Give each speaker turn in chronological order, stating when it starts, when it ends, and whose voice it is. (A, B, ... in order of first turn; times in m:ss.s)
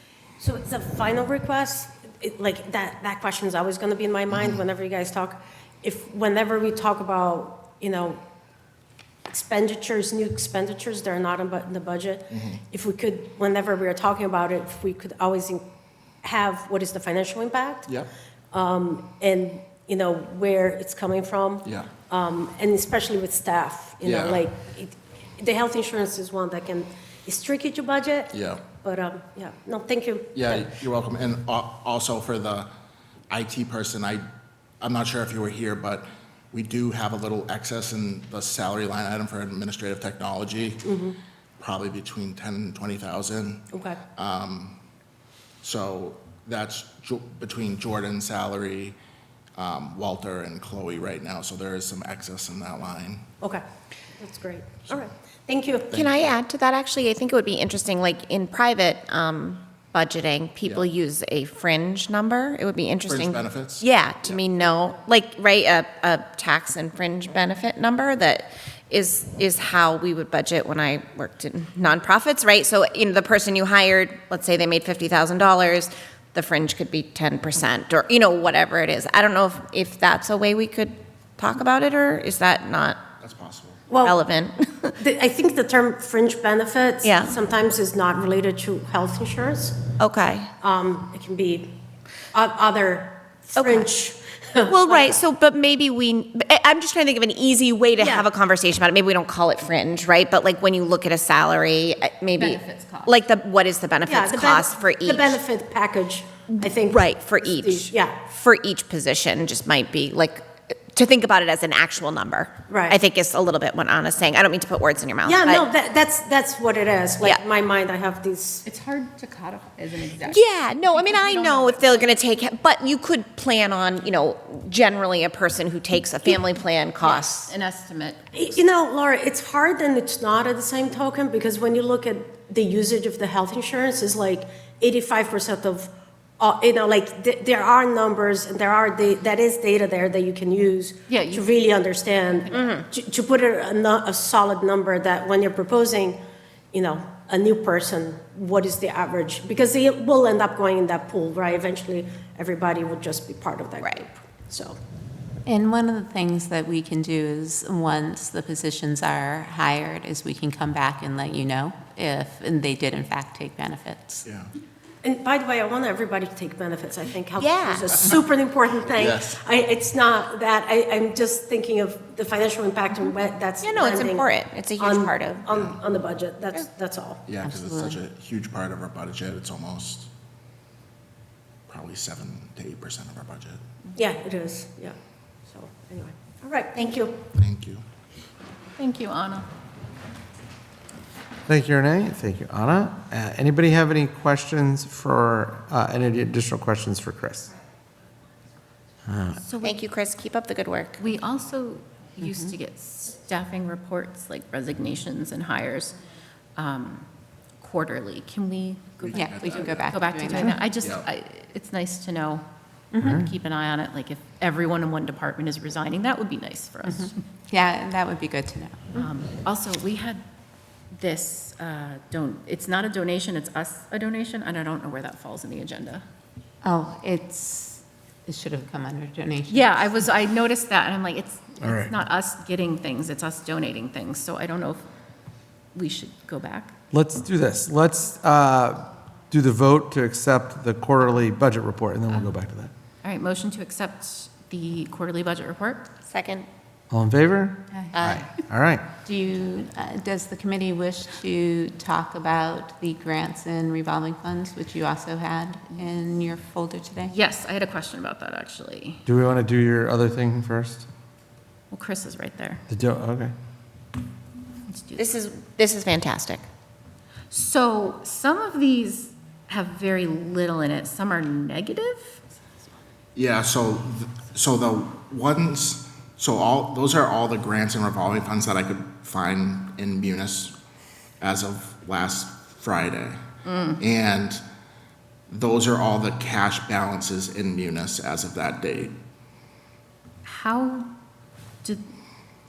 0:00.4-0:08.2 A
0:04.3-0:04.6 B
0:09.3-0:15.6 A
0:12.3-0:12.6 B
0:16.2-0:17.9 A
0:18.5-0:30.7 A
0:24.0-0:24.4 B
0:28.3-0:28.6 B
0:30.3-0:32.7 B
0:33.3-0:34.2 B
0:34.8-0:40.8 B
0:40.8-0:41.2 A
0:41.6-0:44.8 B
0:43.7-0:44.0 A
0:45.6-0:49.0 B
0:49.6-0:53.2 B
0:54.2-0:56.0 A
0:55.9-0:56.3 B
0:56.0-1:23.0 C
1:03.1-1:04.4 B
1:23.2-1:23.8 B
1:23.9-1:24.2 A
1:24.0-1:25.0 C
1:25.0-1:29.8 A
1:27.0-1:27.3 C
1:30.0-1:30.5 C
1:30.6-1:31.7 A
1:32.3-1:35.2 A
1:33.6-1:33.9 C
1:34.6-1:45.4 C
1:38.0-1:38.3 A
1:42.4-1:43.1 D
1:44.0-1:48.2 A
1:46.5-1:55.7 C
1:52.7-1:53.0 A
1:55.2-1:58.6 A
1:58.6-2:02.1 D
2:00.3-2:07.5 C
2:07.0-2:08.4 D
2:08.3-2:26.2 A
2:21.1-2:21.5 D
2:22.4-2:22.7 D
2:22.5-2:22.8 C
2:26.7-2:34.8 A
2:33.8-2:34.0 C
2:35.4-2:44.2 E
2:44.2-2:44.5 B
2:45.0-2:57.2 A
2:47.4-2:47.9 C
2:48.9-2:49.4 B
2:53.6-2:55.5 C
2:55.5-2:55.8 B
2:57.2-3:00.1 B
2:57.4-2:58.0 E
3:01.7-3:03.6 B
3:03.9-3:04.9 A
3:05.5-3:07.2 A
3:07.3-3:07.8 B
3:08.8-3:09.5 D
3:11.5-3:17.5 F
3:19.0-3:19.4 F
3:19.4-3:19.8 D
3:19.6-3:21.0 C
3:21.0-3:26.0 D
3:22.2-3:22.5 E
3:26.6-3:27.1 D
3:27.6-3:32.4 D
3:29.0-3:29.9 B
3:29.1-3:30.6 E
3:30.8-3:31.0 B
3:33.0-3:33.3 F
3:33.0-3:37.2 D
3:36.8-3:39.0 E
3:38.9-3:40.2 D
3:40.9-3:46.0 D
3:46.6-3:49.9 E
3:49.5-3:54.9 D
3:51.6-3:51.9 F
3:55.7-3:56.7 D
3:56.9-4:02.7 F
4:03.0-4:05.9 D
4:06.1-4:06.5 C
4:06.9-4:08.8 F
4:07.7-4:08.3 D
4:09.0-4:17.1 E
4:17.1-4:19.0 D
4:19.0-4:20.9 F
4:21.7-4:22.6 D
4:22.7-4:23.3 F
4:24.7-4:25.1 D
4:25.0-4:26.4 C
4:27.3-4:32.2 D
4:33.1-4:40.5 B
4:41.2-4:43.2 B
4:43.4-4:43.8 D
4:43.8-4:44.4 B
4:45.3-4:49.0 B
4:50.2-4:50.9 D